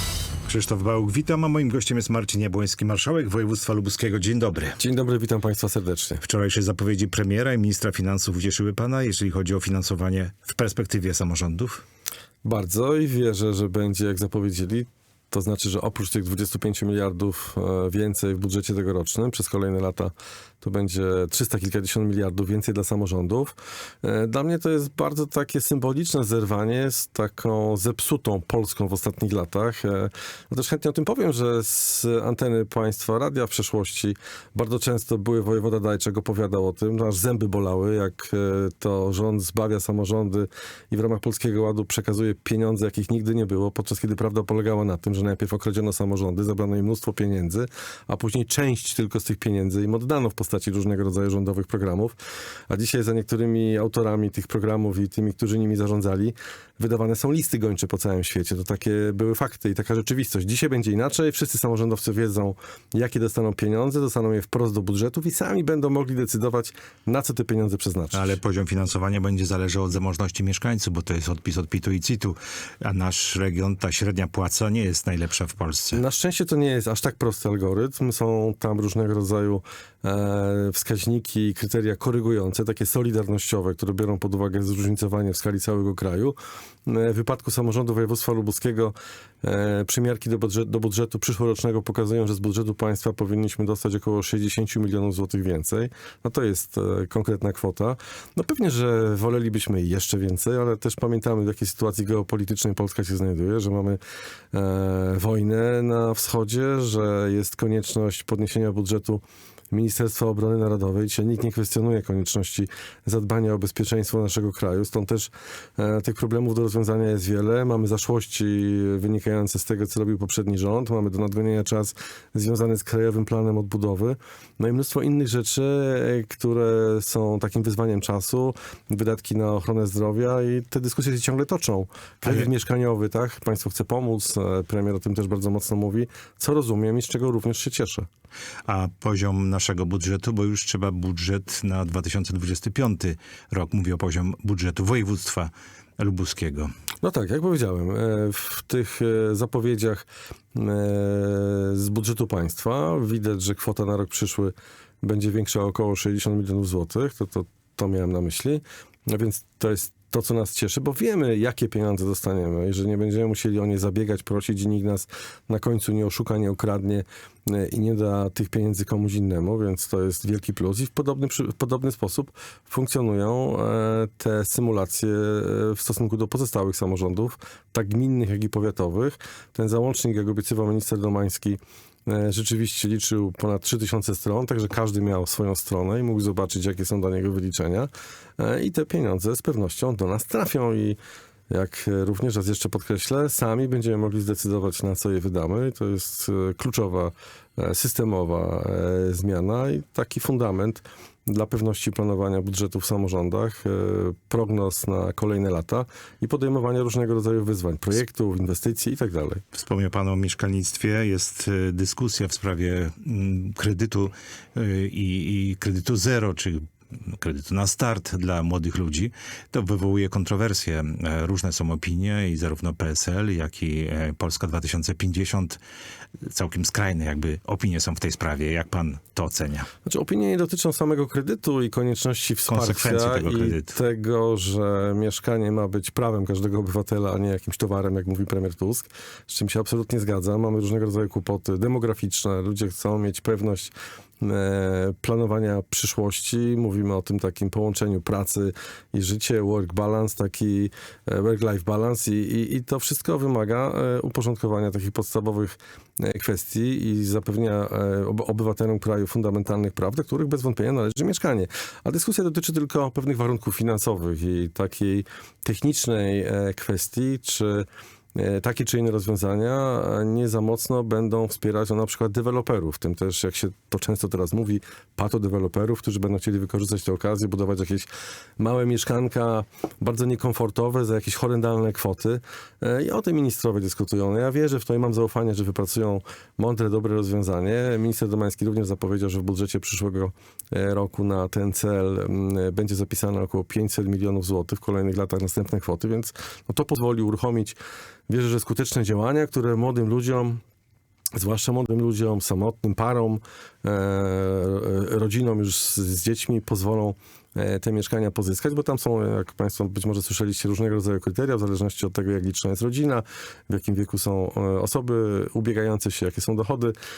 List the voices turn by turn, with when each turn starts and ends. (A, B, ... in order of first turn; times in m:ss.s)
0:00.4-0:04.8 A
0:04.8-0:06.2 B
0:06.2-0:11.8 A
0:12.4-0:52.2 B
0:52.7-1:08.3 B
1:08.1-1:16.0 A
1:15.9-1:44.0 B
1:44.5-2:18.1 B
2:18.6-2:26.7 A
2:27.0-3:11.0 B
3:11.5-3:29.4 B
3:29.5-3:45.6 A
3:46.2-3:49.7 A
3:49.8-4:37.9 B
3:52.5-3:53.8 A
4:38.4-4:57.6 B
4:58.1-5:00.4 B
5:01.2-5:16.7 B